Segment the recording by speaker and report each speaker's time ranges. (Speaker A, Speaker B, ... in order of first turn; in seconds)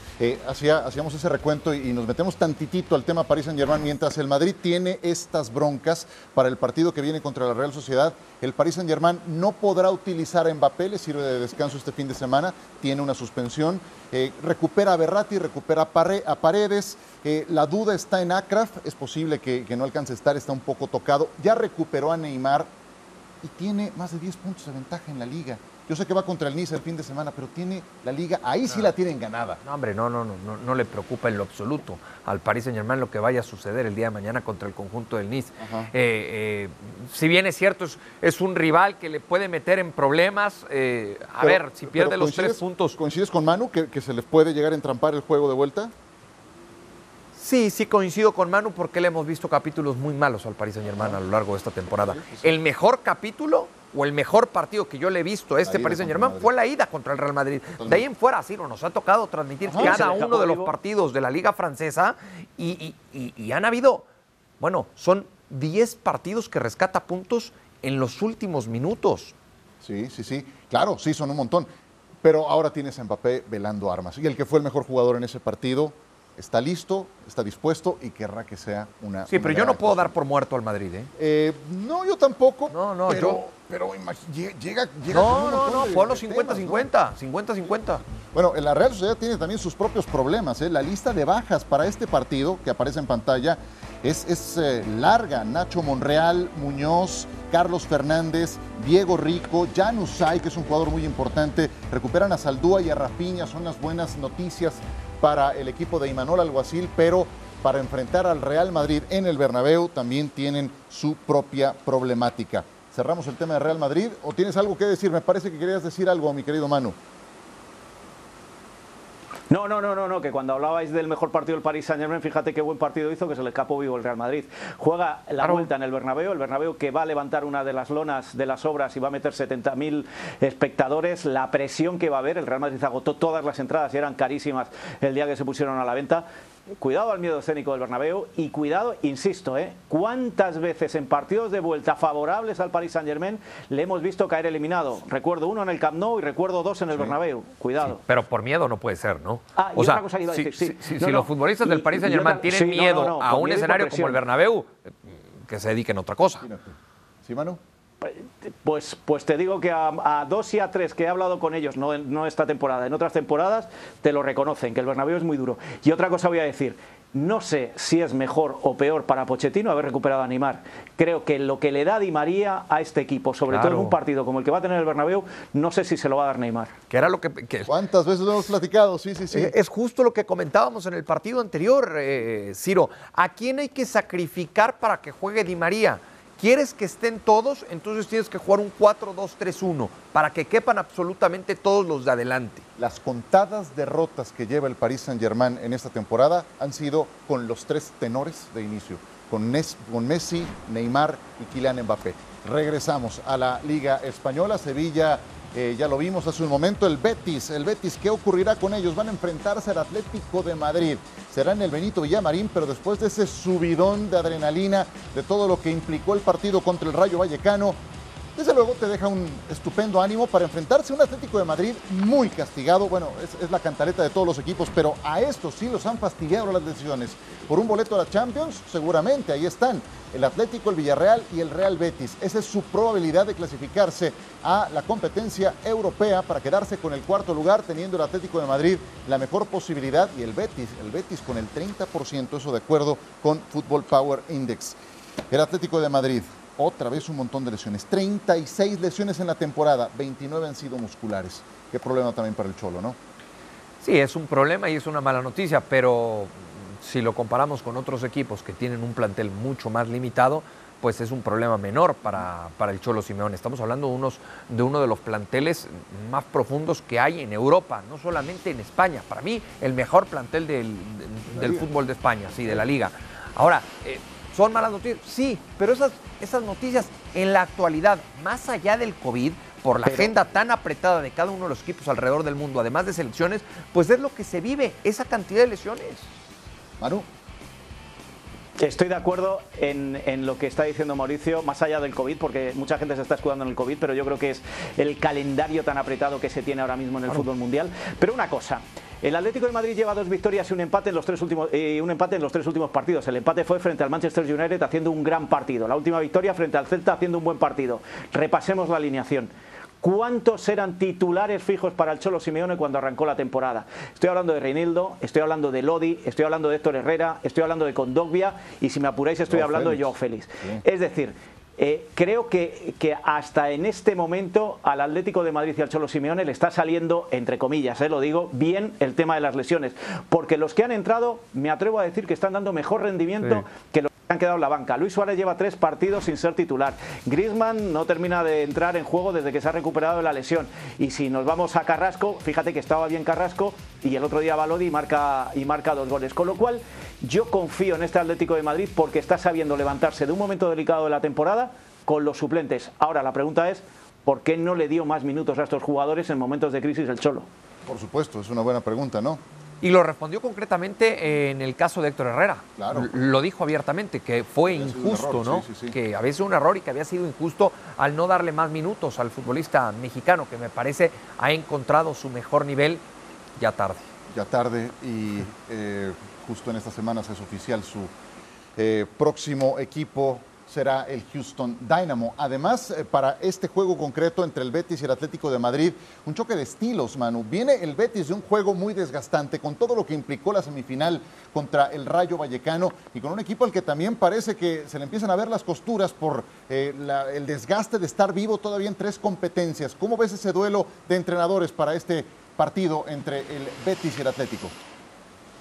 Speaker A: 0.2-22.7, 23.4-29.6, 35.6-35.9, 41.4-45.9, 52.0-52.6, 55.6-56.5, 57.8-58.0, 59.6-60.1, 69.8-71.7, 72.2-80.2, 81.2-86.9, 88.3-117.0, 156.4-157.6, 177.7-179.5, 192.8-217.8, 218.4-244.8, 245.3-253.0, 271.3-271.7, 279.9-280.1, 286.8-287.1, 319.3-320.6, 357.7-359.2, 362.6-362.9, 364.5-365.8, 374.1-377.9, 378.6-404.6
Speaker B: 29.6-43.0, 47.4-64.1, 64.6-69.3, 79.3-81.1, 82.7-83.4, 85.1-88.0, 125.4-125.7, 147.8-156.5, 173.5-174.0, 176.9-177.8, 179.3-192.7, 253.8-286.1, 359.6-372.8, 373.4-373.9
Speaker C: 59.8-60.7, 119.5-136.3, 136.8-148.0, 149.6-154.2, 158.0-176.8, 288.6-309.3, 309.8-357.3